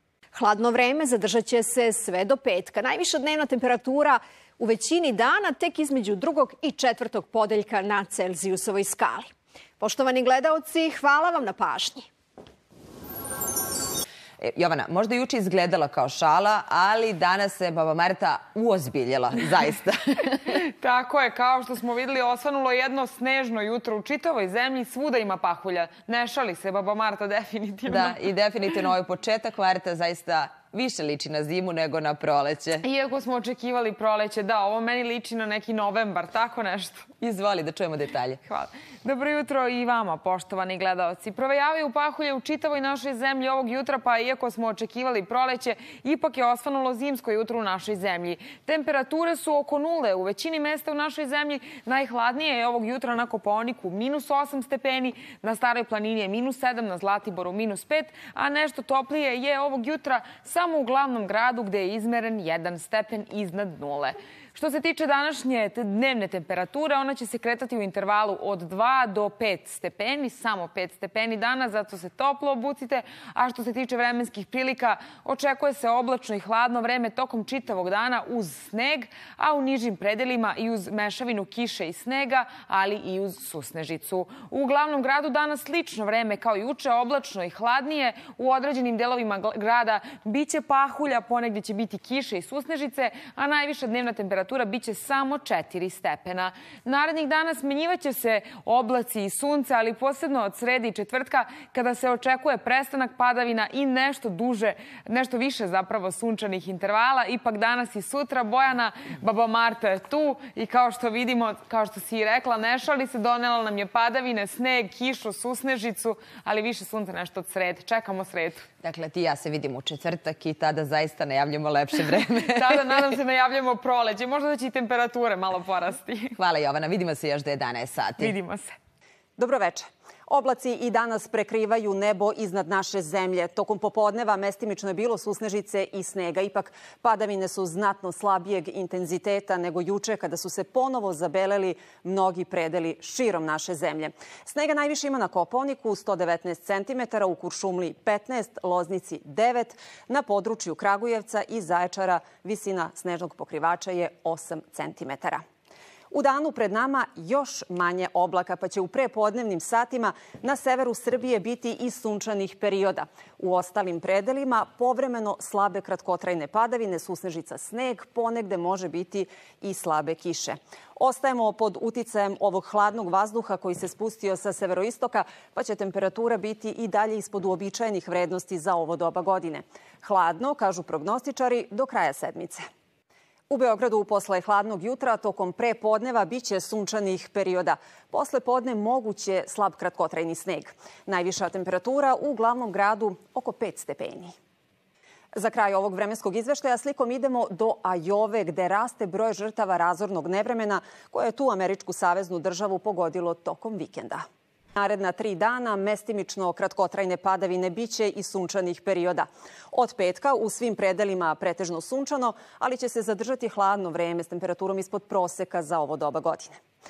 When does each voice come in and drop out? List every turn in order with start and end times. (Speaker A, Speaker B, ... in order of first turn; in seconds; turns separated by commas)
Speaker A: 0.3-12.1, Speaker B: 14.4-20.4, Speaker C: 20.6-28.2, Speaker B: 27.9-32.8, Speaker C: 32.8-37.1, Speaker B: 37.2-38.4, Speaker C: 38.4-118.7, Speaker B: 118.8-122.9, Speaker C: 122.5-126.3, Speaker B: 126.4-128.3, Speaker C: 128.2-128.7, Speaker D: 129.4-155.4, Speaker D: 156.1-182.6, Speaker D: 183.5-194.3, Speaker D: 195.3-204.2, Speaker D: 204.8-216.6